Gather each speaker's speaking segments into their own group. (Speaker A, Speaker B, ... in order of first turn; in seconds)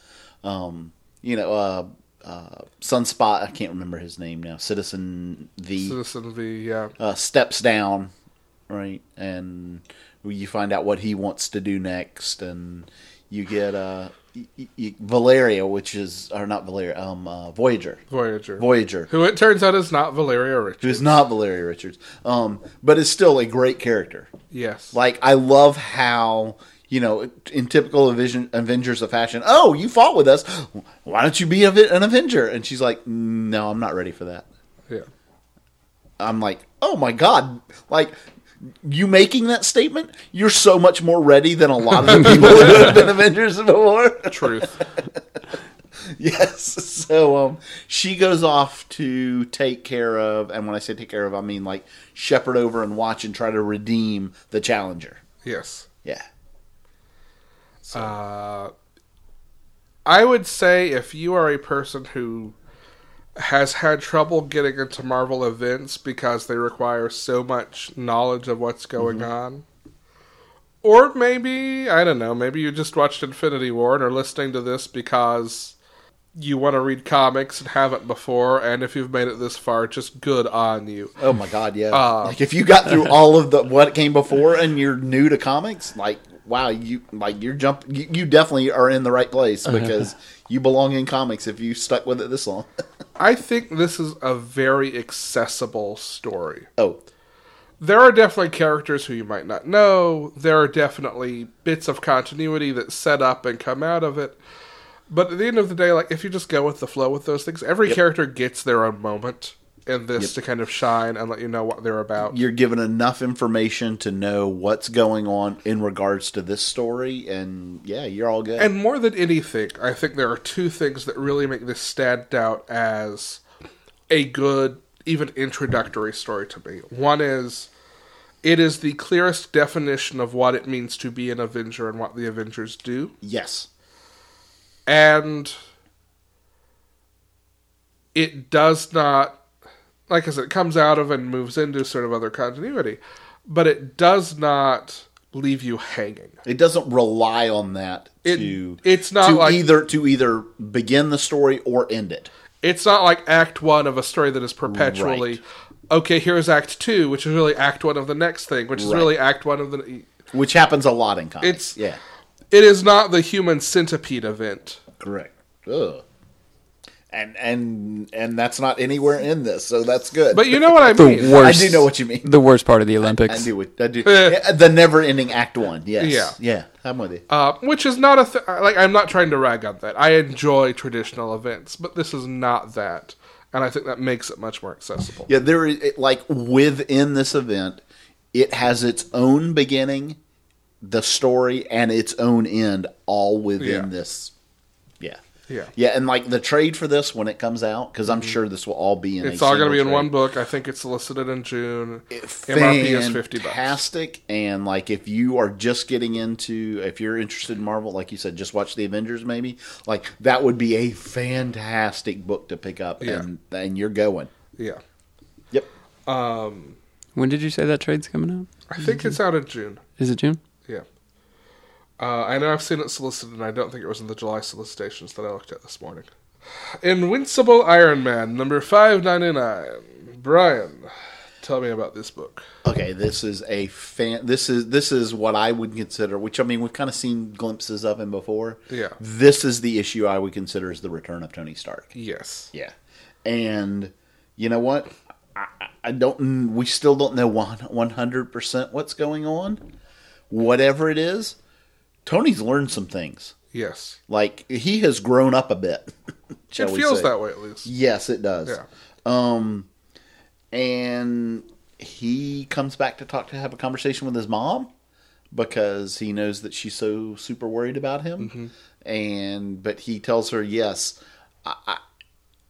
Speaker A: 0.4-6.0, 7.0-8.1, 8.7-18.0, 18.6-19.1, 20.8-24.3, 24.9-34.5, 36.2-38.2, 38.7-45.4, 46.1-55.2, 57.9-58.1, 69.0-69.3, 81.2-92.7, 112.2-118.7, 133.2-133.7, 146.4-152.3, 154.7-155.4, 158.7-159.1, 160.3-162.0, 165.0-166.0, 167.1-172.3, 173.0-177.2, 185.3-187.8, 188.3-190.2, 190.8-194.3, 195.7-200.1, 202.1-214.3, 232.6-241.9, 243.2-249.6, 250.3-251.4, 252.1-253.3, 254.1-255.9, 256.5-257.1, 257.6-259.7, 260.5-264.7, 265.3-271.8
Speaker B: 5.8-6.9, 18.1-21.2, 24.5-24.9, 42.2-42.9, 44.3-44.8, 55.4-55.9, 57.9-58.7, 60.0-62.5, 63.4-69.6, 70.8-75.7, 76.3-81.2, 81.9-82.4, 93.2-96.7, 97.8-104.4, 105.1-112.4, 118.6-123.4, 124.1-127.7, 128.4-133.1, 134.9-135.5, 138.1-139.4, 140.1-146.3, 148.2-149.6, 152.6-160.1, 161.4-161.8, 162.5-164.8, 170.3-171.6, 174.0-174.4, 176.0-176.3, 177.3-185.3, 193.6-193.9, 199.2-203.8, 213.0-213.2, 216.1-216.8, 218.7-219.8, 222.0-226.1, 226.8-230.9, 231.4-232.4, 238.7-239.0, 241.9-242.5, 253.5-254.0, 256.6-257.7, 268.2-268.5
Speaker C: 170.9-173.5, 217.2-219.2, 220.0-220.4